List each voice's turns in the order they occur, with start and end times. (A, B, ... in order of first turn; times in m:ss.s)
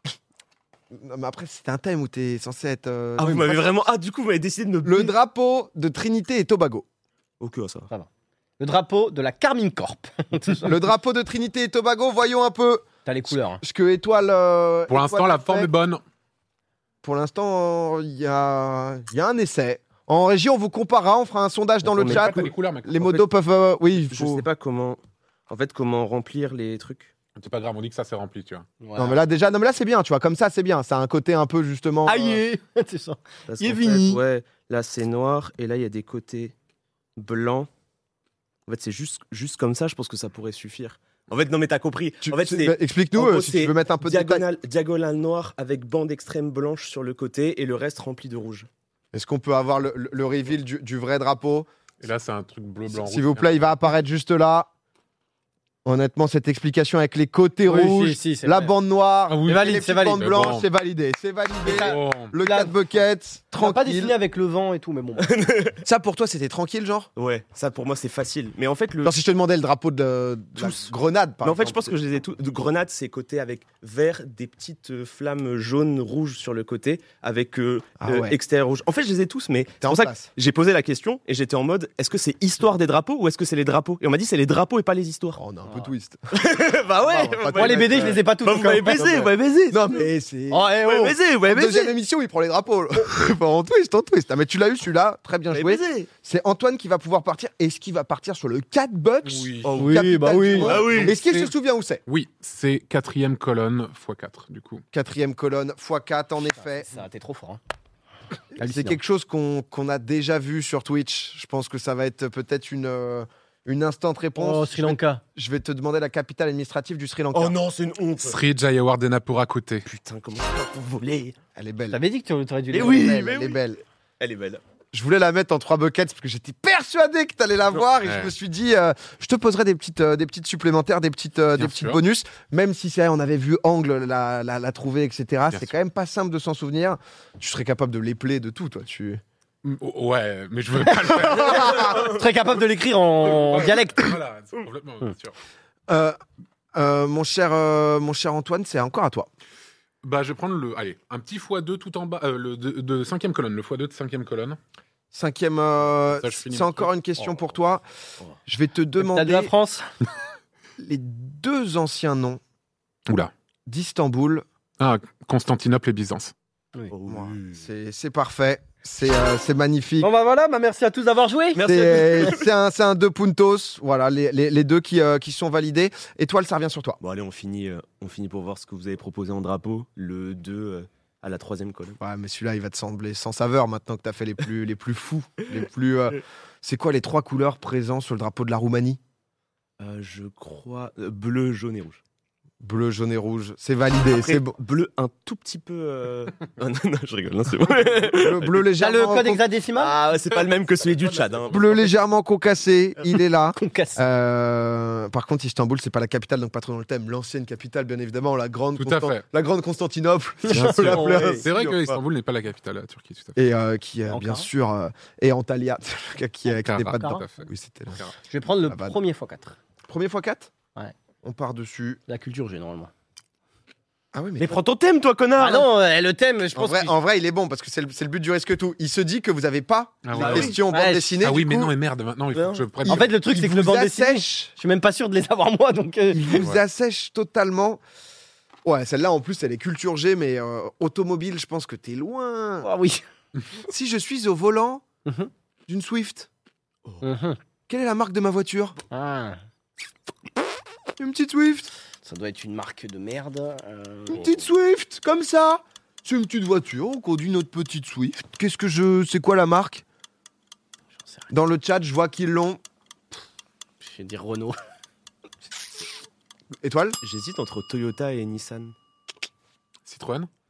0:00.9-0:03.7 A
0:03.2-0:05.1 B
0:04.8-0:06.8 A
0:07.4-0:07.9 B
0:08.6-0:10.9 C
0:10.6-0:12.9 A
0:13.1-0:13.6 C
0:13.6-0:15.7 A
0:14.9-0:16.0 D
0:17.0-0:24.4 A
0:21.9-0:23.3 D
0:24.1-0:27.1 B
0:27.4-0:28.7 D
0:28.8-0:29.2 C
0:29.0-0:32.4 A
0:32.1-0:34.2 C
0:33.5-0:36.5 B
0:37.2-0:37.7 B
0:38.7-0:48.7 B
0:42.2-0:44.4 A
0:49.1-0:51.7 A
0:52.0-0:53.7 D
0:52.9-0:54.7 A
0:55.8-1:04.2 A
0:57.7-0:58.8 C
0:59.3-1:00.7 D
0:59.4-1:00.4 C
1:01.6-1:02.8 C
1:01.7-1:02.3 D
1:03.6-1:05.4 C
1:05.2-1:05.8 B
1:05.8-1:07.1 A
1:07.2-1:09.1 B
1:09.0-1:11.9 A
1:10.6-1:10.9 B
1:11.4-1:25.4 B
1:18.0-1:18.4 A
1:19.8-1:20.3 A
1:25.4-1:26.4 A
1:25.7-1:25.9 C
1:26.3-1:30.0 B
1:27.0-1:28.2 A
1:27.5-1:29.3 C
1:29.0-1:42.0 A
1:30.5-1:31.2 C
1:30.8-1:31.9 B
1:35.5-1:36.1 B
1:39.2-1:39.9 D
1:39.6-1:40.0 B
1:39.8-1:40.8 C
1:40.6-1:41.2 B
1:40.8-1:41.5 D
1:42.1-1:44.8 D
1:44.9-1:46.9 A
1:46.5-1:47.6 C
1:48.6-1:49.0 C
1:48.6-1:57.6 A
1:54.4-1:55.2 C
1:57.3-1:58.4 B
1:58.2-1:59.9 D
1:59.8-2:01.4 B
2:01.6-2:02.0 A
2:01.9-2:03.3 C
2:02.7-2:03.7 B
2:02.7-2:03.8 A
2:04.2-2:04.6 B
2:04.9-2:19.2 A
2:08.0-2:08.3 D
2:11.6-2:12.0 D
2:19.6-2:22.1 D
2:20.9-2:24.2 C
2:21.5-2:21.9 A
2:23.2-2:25.4 D
2:25.9-2:26.2 A
2:26.7-2:29.3 A
2:30.0-2:34.6 D
2:35.1-2:37.8 A
2:36.0-2:36.9 D
2:38.5-2:39.5 A
2:39.0-2:39.9 C
2:40.8-2:42.4 A
2:43.1-2:43.3 D
2:43.7-2:44.4 A
2:44.8-2:46.3 D
2:46.9-2:47.6 B
2:47.1-2:50.1 A
2:50.0-2:52.3 C
2:51.5-2:52.5 B
2:51.6-2:57.0 A
2:57.0-3:02.0 B
3:02.0-3:09.0 A
3:09.8-3:12.0 B
3:12.6-3:14.6 A
3:14.1-3:18.7 B
3:18.1-3:19.4 A
3:18.8-3:20.0 C
3:19.8-3:21.7 B
3:21.5-3:31.6 A
3:23.6-3:24.0 C
3:28.8-3:29.2 D
3:30.4-3:31.4 C
3:30.5-3:32.0 B
3:31.4-3:33.4 D
3:33.4-3:38.1 A
3:34.1-3:34.5 C
3:36.6-3:38.1 D
3:37.0-3:37.3 C
3:38.3-3:39.6 C
3:38.6-3:39.0 A
3:39.9-3:40.5 A
3:41.2-3:42.0 A
3:42.1-3:42.9 C
3:44.1-3:44.6 A
3:44.4-3:45.7 B
3:45.4-3:47.0 C
3:46.6-3:51.7 A
3:50.0-3:50.6 D
3:50.2-3:50.6 B
3:50.7-3:51.2 C
3:51.2-3:53.1 D
3:52.3-3:52.7 B
3:52.8-3:54.5 A
3:52.9-3:56.4 C
3:56.1-3:57.8 A
3:56.4-3:56.6 D
3:58.6-4:02.7 A
4:02.6-4:03.0 C
4:03.6-4:04.8 A
4:05.0-4:05.3 C
4:05.7-4:06.3 A
4:07.0-4:07.4 C
4:07.7-4:08.8 A
4:08.9-4:09.4 C
4:11.0-4:11.7 A
4:12.0-4:14.3 C
4:14.1-4:19.8 A
4:21.0-4:21.3 C
4:21.3-4:22.6 A
4:23.8-4:24.6 C
4:26.6-4:27.0 A
4:27.0-4:28.7 B
4:29.9-4:30.3 D